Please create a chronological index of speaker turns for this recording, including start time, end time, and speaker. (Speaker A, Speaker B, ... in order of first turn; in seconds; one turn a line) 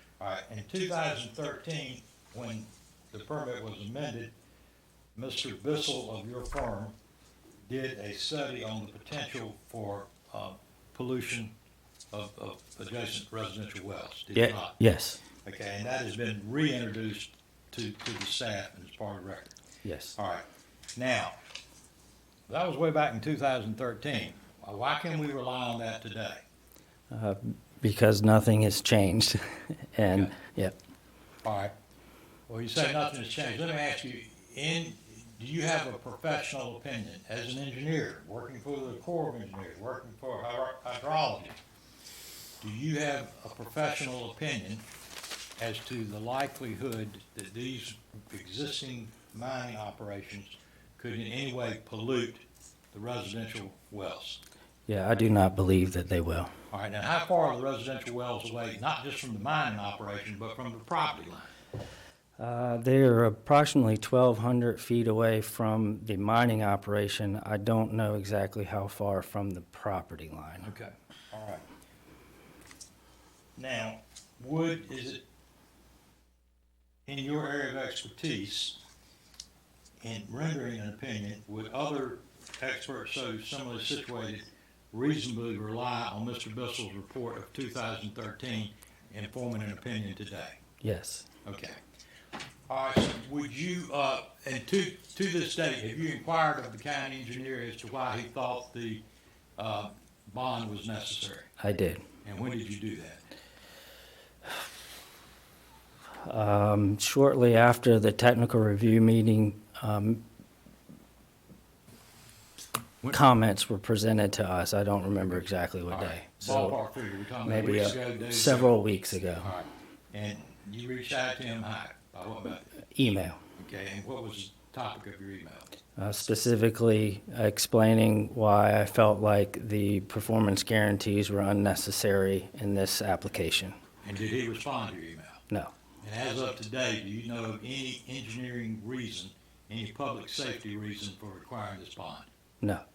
Speaker A: 0.2-4.3
Speaker A: 5.2-7.0
Speaker A: 7.7-11.5
Speaker A: 12.1-14.8
Speaker B: 14.3-15.2
Speaker A: 15.4-19.6
Speaker B: 19.8-20.2
Speaker A: 20.2-20.4
Speaker A: 20.9-21.4
Speaker A: 22.5-26.4
Speaker B: 27.1-30.8
Speaker A: 31.4-31.7
Speaker A: 32.5-41.6
Speaker A: 42.6-44.8
Speaker A: 45.6-54.4
Speaker B: 54.9-56.5
Speaker A: 56.7-61.5
Speaker B: 62.4-70.7
Speaker A: 70.6-71.7
Speaker A: 73.6-75.2
Speaker A: 77.1-78.8
Speaker A: 80.0-90.6
Speaker B: 90.8-91.3
Speaker A: 91.5-91.8
Speaker A: 92.7-99.0
Speaker A: 99.6-101.5
Speaker B: 101.6-102.0
Speaker A: 102.2-103.2
Speaker B: 106.2-110.2
Speaker B: 113.1-116.8
Speaker A: 115.9-118.7
Speaker B: 117.4-119.5
Speaker A: 119.4-122.7
Speaker B: 122.8-123.4
Speaker A: 123.6-125.7
Speaker B: 126.0-133.8
Speaker A: 134.0-135.4
Speaker B: 135.5-135.7
Speaker A: 136.0-142.3